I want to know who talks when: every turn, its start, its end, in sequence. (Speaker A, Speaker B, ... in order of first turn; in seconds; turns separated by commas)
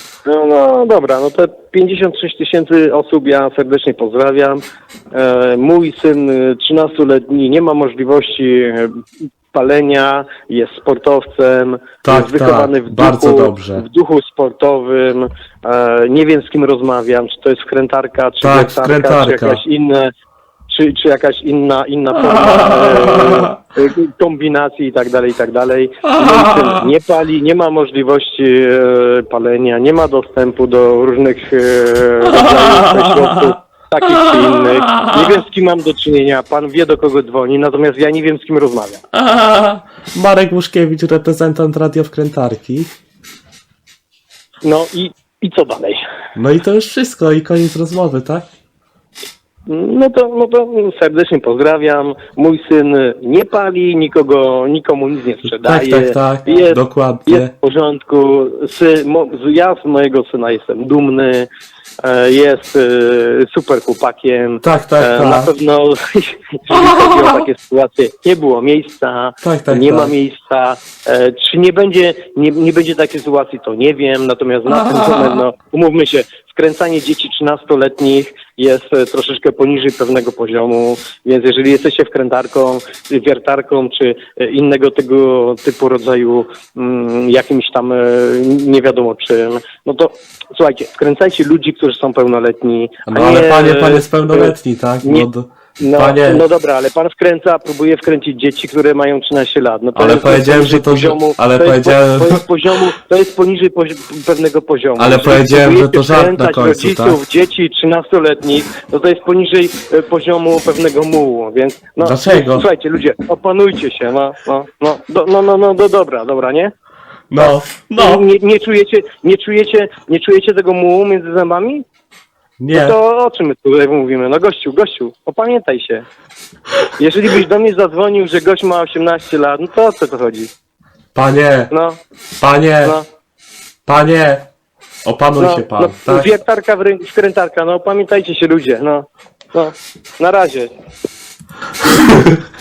Speaker A: 0.2-4.6, Speaker A: 5.1-9.0, Speaker A: 9.5-20.1, Speaker B: 12.0-13.8, Speaker B: 18.4-19.6, Speaker A: 20.7-39.0, Speaker B: 23.1-23.4, Speaker B: 26.2-26.8, Speaker B: 32.5-33.2, Speaker B: 34.4-35.4, Speaker B: 39.1-42.9, Speaker A: 44.6-46.0, Speaker B: 46.4-48.4, Speaker A: 49.6-61.5, Speaker B: 55.5-57.5, Speaker A: 62.0-95.3, Speaker B: 64.6-65.5, Speaker B: 69.4-70.1, Speaker B: 93.1-96.4, Speaker A: 95.8-116.7, Speaker B: 99.9-102.8, Speaker B: 105.0-107.2, Speaker B: 112.0-112.7, Speaker B: 117.3-118.2, Speaker A: 118.0-121.8, Speaker B: 122.6-123.0, Speaker A: 122.7-126.0, Speaker A: 127.0-130.5, Speaker B: 131.1-131.7, Speaker A: 131.7-132.0, Speaker B: 132.4-133.0, Speaker B: 133.8-134.5, Speaker B: 135.0-136.3, Speaker A: 135.4-140.7, Speaker B: 141.8-142.4